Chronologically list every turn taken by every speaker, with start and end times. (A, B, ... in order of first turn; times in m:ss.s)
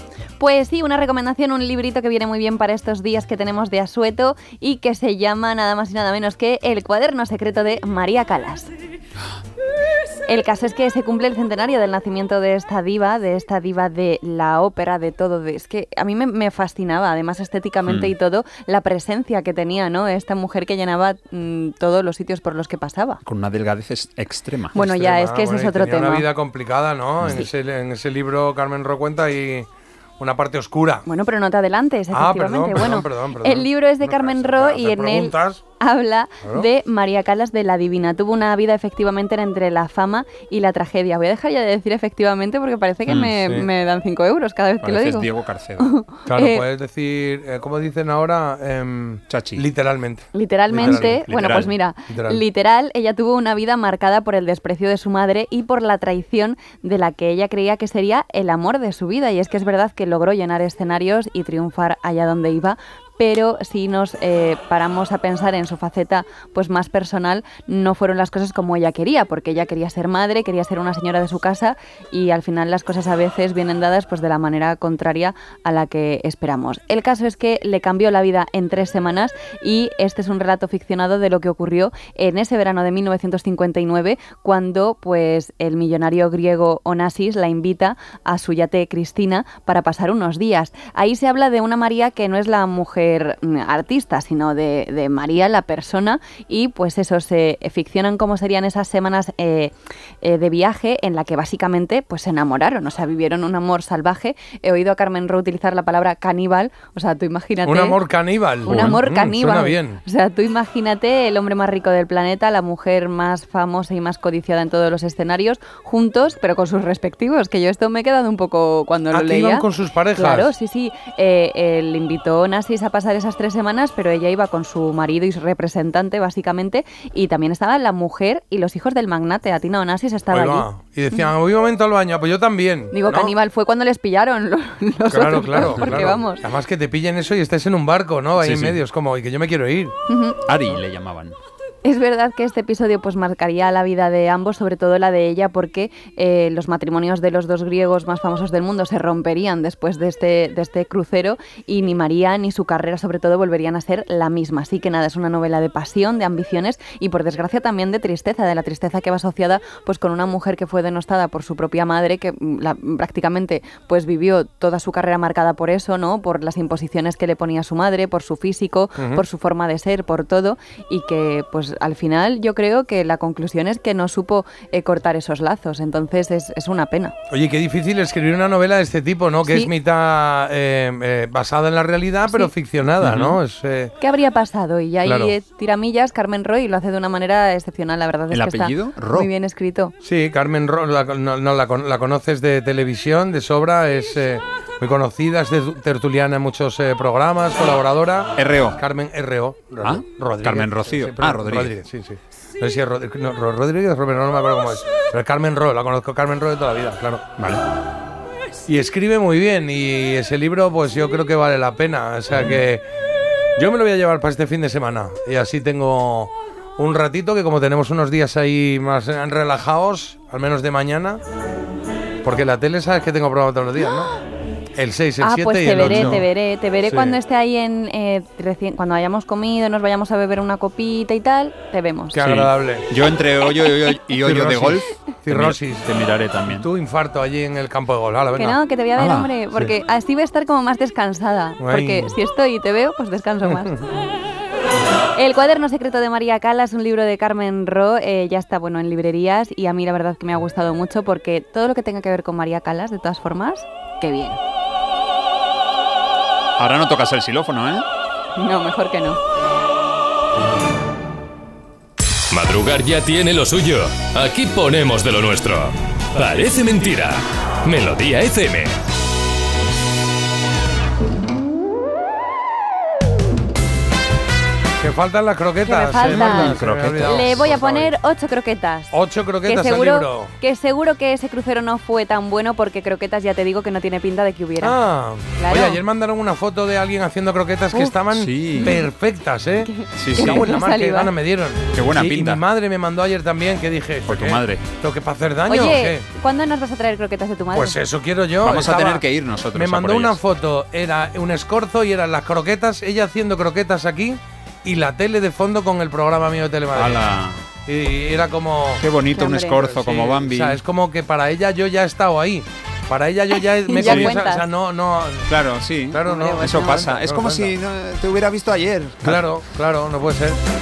0:00.4-0:08.7 A
0:10.3-0:23.2 A
0:17.9-0:18.1 B
0:23.2-0:24.8 B
0:24.7-0:26.3 A
0:24.8-0:29.7 C
0:30.2-0:31.1 C
0:31.1-0:46.6 A
0:32.1-0:35.6 C
0:43.4-0:43.7 C
0:44.8-0:45.9 B
0:46.3-0:51.2 C
0:49.3-0:49.6 B
0:50.3-1:48.0 A
0:50.8-0:51.7 B
0:52.1-0:52.4 C
1:47.6-1:50.0 C
1:48.6-2:11.3 A
1:48.7-1:49.0 B
1:59.1-2:00.5 C
2:10.3-2:13.3 C
2:12.9-2:16.4 A
2:15.1-2:19.9 C
2:18.4-2:18.8 B
2:20.1-2:20.4 A
2:20.5-2:21.4 B
2:21.8-2:57.1 A
2:49.0-2:49.2 C
2:57.3-3:03.9 C
3:03.0-3:03.4 B
3:04.0-3:09.9 A
3:05.1-3:05.4 C
3:08.3-3:09.3 B
3:10.0-3:27.3 C
3:18.4-3:18.8 B
3:19.8-3:21.7 B
3:27.4-3:27.6 B
3:28.7-3:32.8 C
3:33.6-3:41.2 C
3:42.2-3:44.1 C
3:44.8-3:46.2 C
3:45.2-3:52.2 A
3:45.8-3:46.2 B
3:46.8-3:47.2 C
3:52.1-3:52.9 C
3:52.2-3:56.7 B
3:54.2-3:55.9 C
3:56.5-3:58.6 C
3:58.4-4:03.8 A
3:59.0-3:59.3 B
4:01.6-4:02.2 C
4:05.2-4:14.4 A
4:16.6-4:17.8 B
4:18.4-4:19.2 A
4:22.3-4:28.8 D
4:34.8-4:37.9 C
4:35.6-4:38.9 A
4:36.0-4:37.5 B
4:38.9-4:40.3 C
4:39.4-4:44.8 A
4:44.6-4:56.1 C
4:45.4-4:45.8 A
4:47.7-4:48.0 A
4:48.1-4:48.8 B
4:48.5-4:48.8 A
4:49.6-4:51.1 A
4:50.0-4:50.5 B
4:51.7-4:52.4 B
4:54.1-4:54.6 B
4:55.5-4:57.8 A
4:57.5-5:07.0 C
4:58.4-5:00.2 B
5:06.7-5:07.4 B
5:07.7-5:08.8 C
5:08.8-5:10.6 B
5:09.1-5:09.7 A
5:09.7-5:15.3 C
5:13.7-5:14.5 A
5:13.8-5:14.2 B
5:15.3-5:19.3 B
5:15.9-5:17.5 C
5:16.0-5:16.8 A
5:19.0-5:20.4 C